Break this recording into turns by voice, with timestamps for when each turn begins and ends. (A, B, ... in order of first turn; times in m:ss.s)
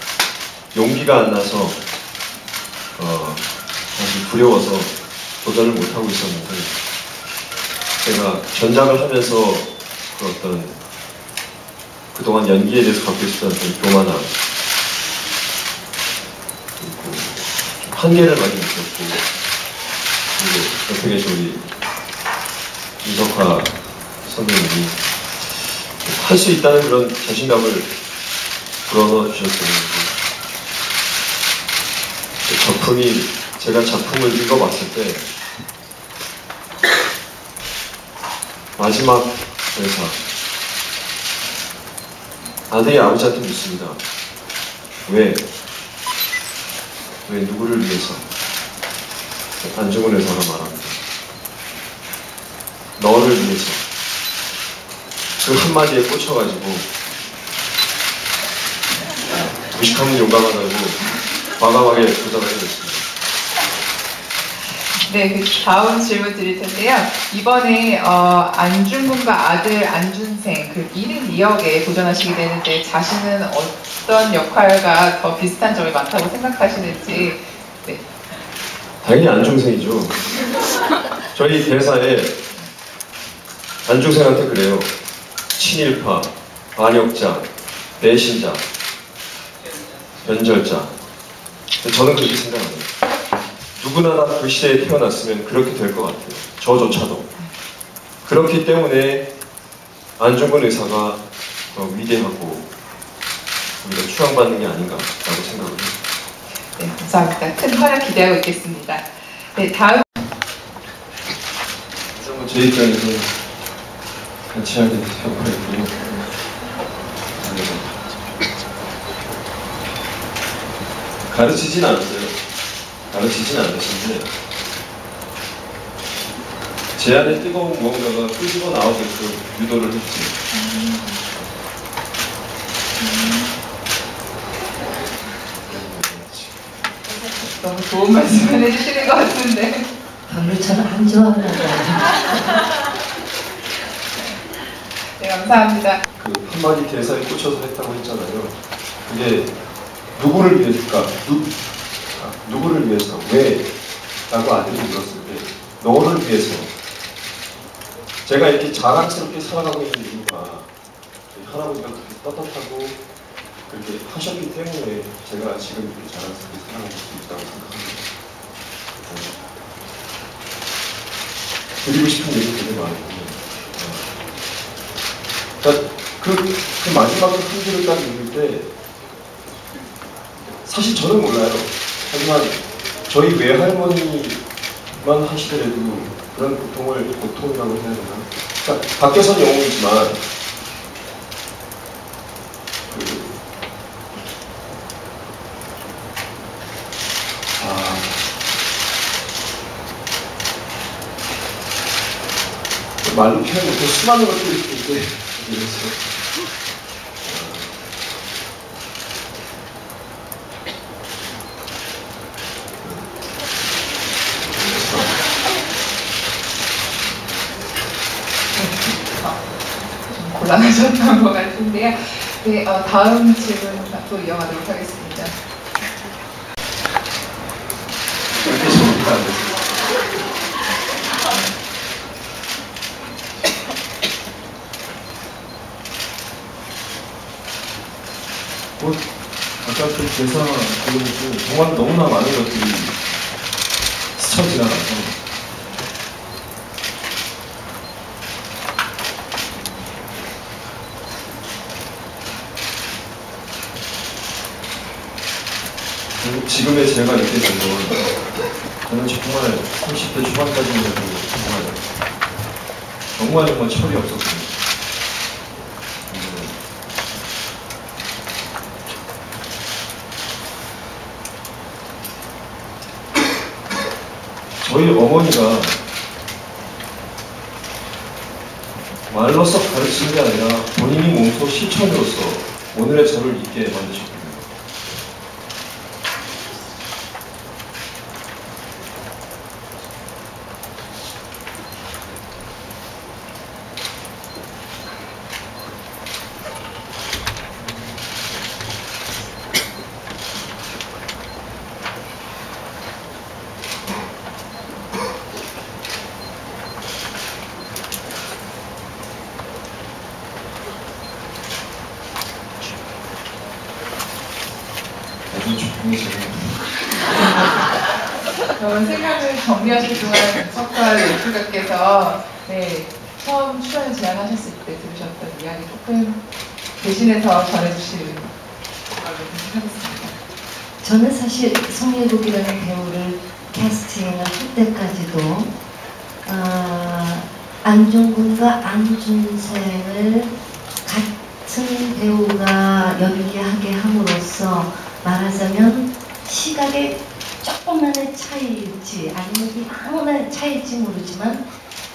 0:00.7-0:01.8 A
0:03.0-0:06.8 A
0:08.0-0:10.8 A
0:12.1-0:14.3 A
0:16.8-0:19.2 A
0:20.4-0:21.7 A
0:23.0-0:25.0 A
0:26.0-0:27.9 A
0:28.9-0:30.1 A
0:32.4-0:35.3 A
0:38.8-0:40.2 A
0:42.7-0:44.0 A
0:45.0-0:45.4 A
0:47.3-0:48.3 A
0:49.6-0:51.0 A
0:53.0-0:53.8 A
0:55.4-0:56.9 A
0:59.3-1:01.0 A
1:01.6-1:03.0 A
1:05.0-1:18.1 B
1:19.0-1:20.2 A
1:21.3-1:22.4 A
1:23.8-1:24.9 A
1:25.6-1:28.6 A
1:30.2-1:31.0 A
1:31.8-1:32.9 A
1:33.8-1:37.3 A
1:38.2-1:39.3 A
1:40.2-1:42.7 A
1:43.8-1:45.9 A
1:46.8-1:50.0 B
1:52.1-1:53.3 A
1:54.5-1:55.9 A
1:57.4-1:57.9 A
2:01.3-2:02.4 A
2:03.1-2:04.3 A
2:07.0-2:10.3 A
2:10.5-2:11.3 B
2:13.0-2:13.5 B
2:15.7-2:16.6 A
2:17.2-2:19.9 B
2:20.2-2:22.5 C
2:25.2-2:26.0 B
2:26.2-2:29.5 A
2:30.1-2:31.5 A
2:32.1-2:33.7 A
2:34.3-2:36.7 A
2:38.2-2:40.7 A
2:41.3-2:43.0 A
2:43.7-2:48.0 A
2:49.0-2:49.4 A
2:51.8-2:54.0 A
2:55.6-2:58.7 A
3:00.6-3:04.4 A
3:05.0-3:10.2 A
3:12.9-3:13.3 A
3:17.6-3:18.2 A
3:23.0-3:26.0 A
3:27.2-3:27.8 A
3:32.8-3:33.1 A
3:34.4-3:35.1 A
3:38.5-3:39.4 B
3:40.0-3:45.4 B
3:48.4-3:49.7 A
3:58.8-3:59.0 A
3:59.6-4:03.0 A
4:04.2-4:05.2 A
4:16.2-4:18.1 A
4:18.8-4:21.8 A
4:23.1-4:24.6 A
4:26.1-4:26.6 A
4:34.6-4:35.8 A
4:39.1-4:44.5 A
5:15.3-5:16.7 A
5:18.6-5:26.2 B
5:26.8-5:28.3 B
5:29.0-5:30.2 B
5:30.8-5:35.5 C
5:36.2-5:51.5 C